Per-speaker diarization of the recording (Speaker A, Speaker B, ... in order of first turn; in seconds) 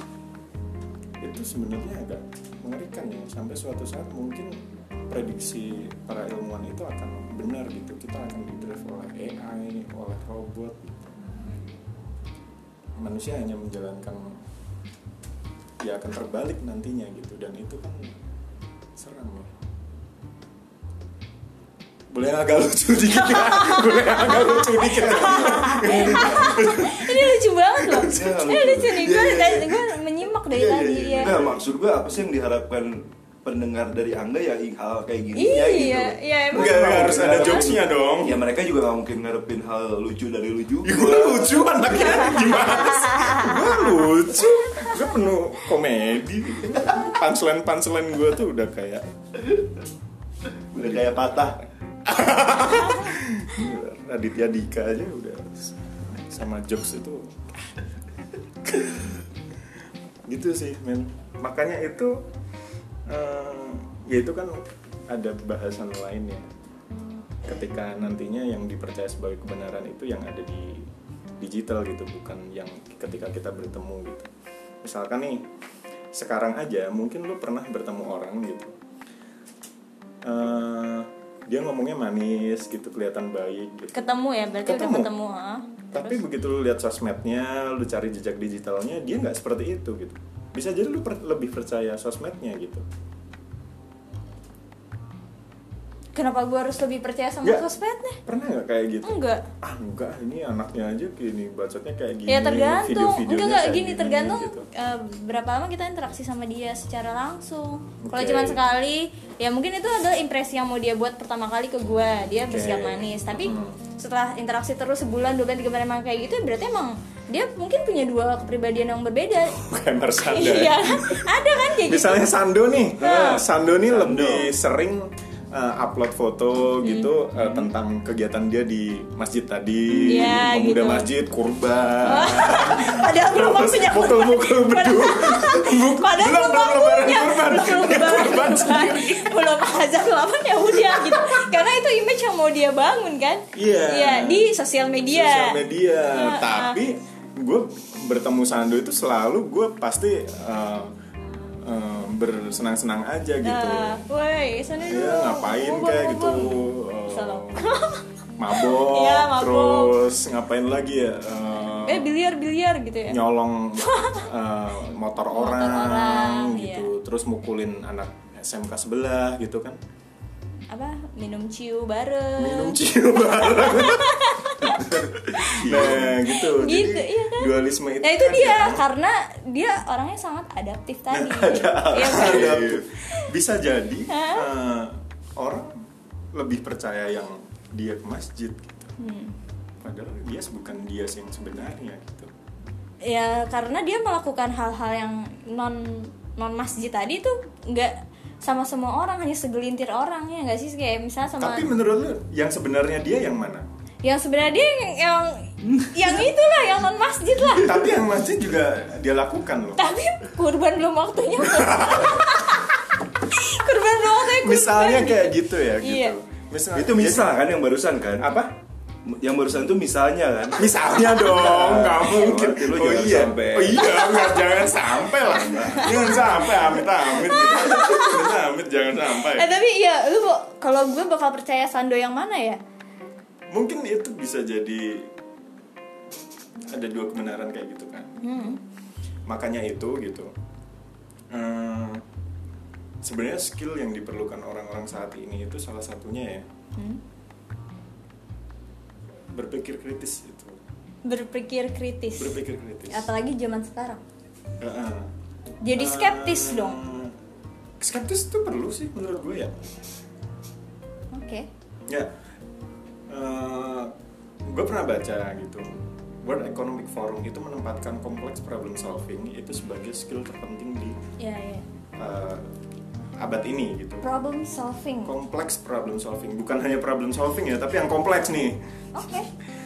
Speaker A: 1.2-4.6, 5.1-11.0, 13.0-14.4, 15.8-18.2, 19.0-19.5, 22.1-28.1, 36.5-38.4, 40.8-49.1, 50.8-57.5, 58.6-59.2, 60.3-62.2, 63.1-66.5, 67.4-70.9, 71.4-74.3, 74.8-75.5, 76.1-78.8, 80.2-84.0, 84.6-85.1, 85.9-92.8, 98.2-104.7, 108.0-108.6, 112.5-113.8, 119.5-121.3, 121.8-139.3, 140.8-141.4, 143.5-144.5, 145.1-150.9, 151.6-154.0, 154.8-157.7, 158.4-162.1, 163.1-169.8, 172.4-178.8, 181.1-185.8, 186.3-188.9, 189.8-192.3, 201.4-203.7, 207.5-209.8, 211.6-212.2, 214.3-217.4, 218.2-218.5, 220.6-229.5, 233.5-235.1, 236.7-238.2, 239.3-240.3, 241.3-242.0, 243.0-246.5, 249.3-250.6, 252.2-253.1, 254.6-255.1, 255.7-257.1, 257.8-259.6, 263.1-263.9, 264.5-265.7, 266.2-271.0, 272.0-272.5, 273.2-274.1, 275.1-278.6
Speaker B: 23.3-31.4, 35.4-37.7, 42.7-44.9, 83.9-86.2, 96.2-98.2, 99.0-99.5, 102.3-119.6, 120.2-122.3, 123.0-123.4, 126.8-127.7, 130.1-131.1, 132.0-145.6, 146.1-146.8, 153.4-160.0, 161.8-163.2, 163.9-164.2, 165.3-166.9, 170.7-172.8, 173.4-174.8, 176.1-182.7, 184.1-184.5, 189.0-189.4, 193.0-201.7, 204.0-207.9, 209.8-216.2, 224.1-224.6, 225.7-228.2, 229.2-232.6, 238.2-238.6, 251.1-254.0, 255.6-256.8, 261.1-261.5, 271.2-271.6, 274.0-275.1, 278.9-279.3
Speaker C: 25.3-26.7, 28.0-42.0, 50.7-51.6, 123.0-124.5, 129.9-130.3, 175.6-176.2, 181.3-182.8, 205.7-206.0, 216.7-218.3, 219.1-224.0